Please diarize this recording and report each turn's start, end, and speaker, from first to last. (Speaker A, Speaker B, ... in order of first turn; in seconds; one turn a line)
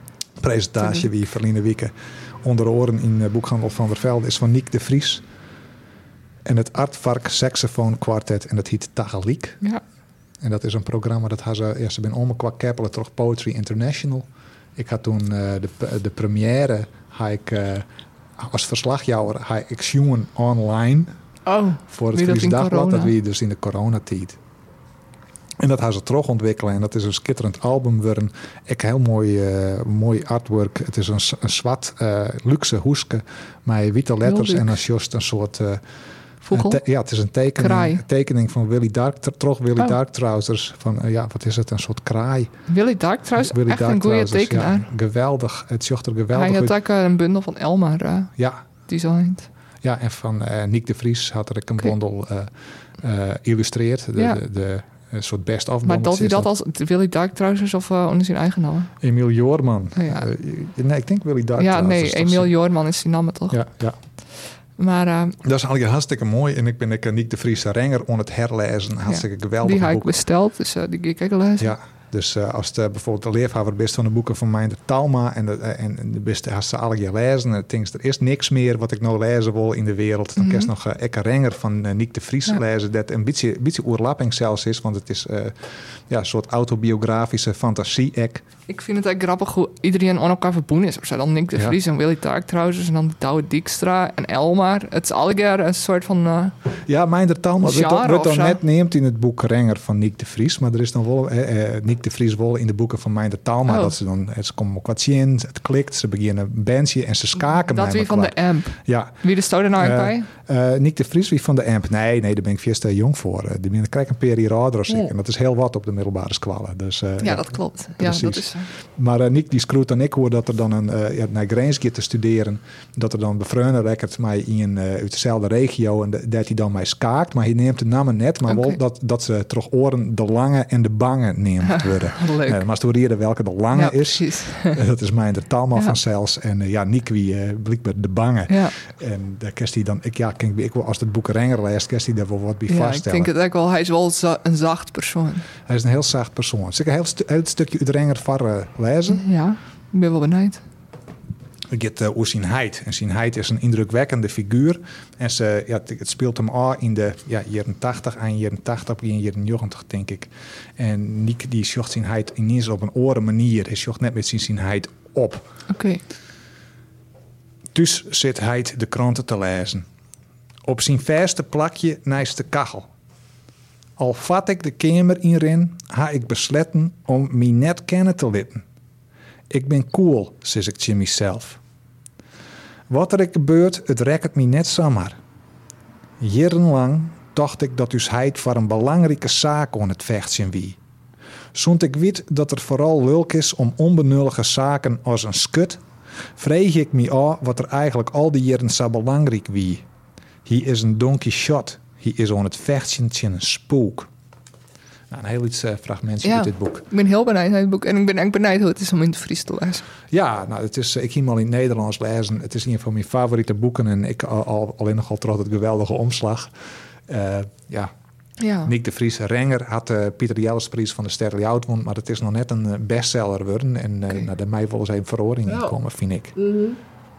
Speaker A: 0.4-5.2
Speaker A: 6.5-9.6
Speaker A: 10.4-17.9
Speaker A: 18.4-21.1
Speaker B: 21.5-23.1
Speaker A: 21.9-24.4
Speaker A: 25.6-35.8
Speaker B: 34.2-34.8
Speaker B: 36.4-36.8
Speaker A: 36.5-42.5
Speaker B: 37.6-38.0
Speaker B: 42.7-44.9
Speaker A: 43.4-46.8
Speaker B: 46.3-48.3
Speaker A: 48.4-48.6
Speaker B: 48.9-49.5
Speaker A: 49.8-56.5
Speaker B: 55.8-58.9
Speaker A: 59.0-62.5
Speaker B: 60.0-60.3
Speaker B: 61.6-63.6
Speaker A: 63.5-64.0
Speaker B: 64.8-65.4
Speaker A: 65.4-70.1
Speaker B: 69.1-71.8
Speaker A: 71.6-85.6
Speaker B: 80.4-80.7
Speaker A: 86.1-88.5
Speaker B: 88.7-96.6
Speaker A: 96.9-109.2
Speaker B: 97.6-98.6
Speaker B: 103.7-104.0
Speaker B: 107.5-110.3
Speaker A: 109.8-143.3
Speaker B: 117.2-118.7
Speaker B: 128.5-128.8
Speaker B: 131.7-132.6
Speaker B: 133.7-134.8
Speaker B: 138.5-138.8
Speaker B: 142.7-145.5
Speaker A: 145.7-149.2
Speaker B: 149.1-150.6
Speaker A: 151.7-165.5
Speaker B: 165.7-166.0
Speaker A: 167.7-169.9
Speaker A: 170.7-172.9
Speaker A: 174.0-178.6
Speaker A: 179.5-181.6
Speaker A: 182.9-185.2
Speaker A: 186.2-190.8
Speaker A: 191.5-195.8
Speaker A: 196.4-199.8
Speaker A: 200.5-204.1
Speaker A: 205.1-206.9
Speaker B: 206.2-209.8
Speaker A: 210.1-216.5
Speaker A: 217.1-217.9
Speaker B: 218.4-218.7
Speaker A: 218.7-226.7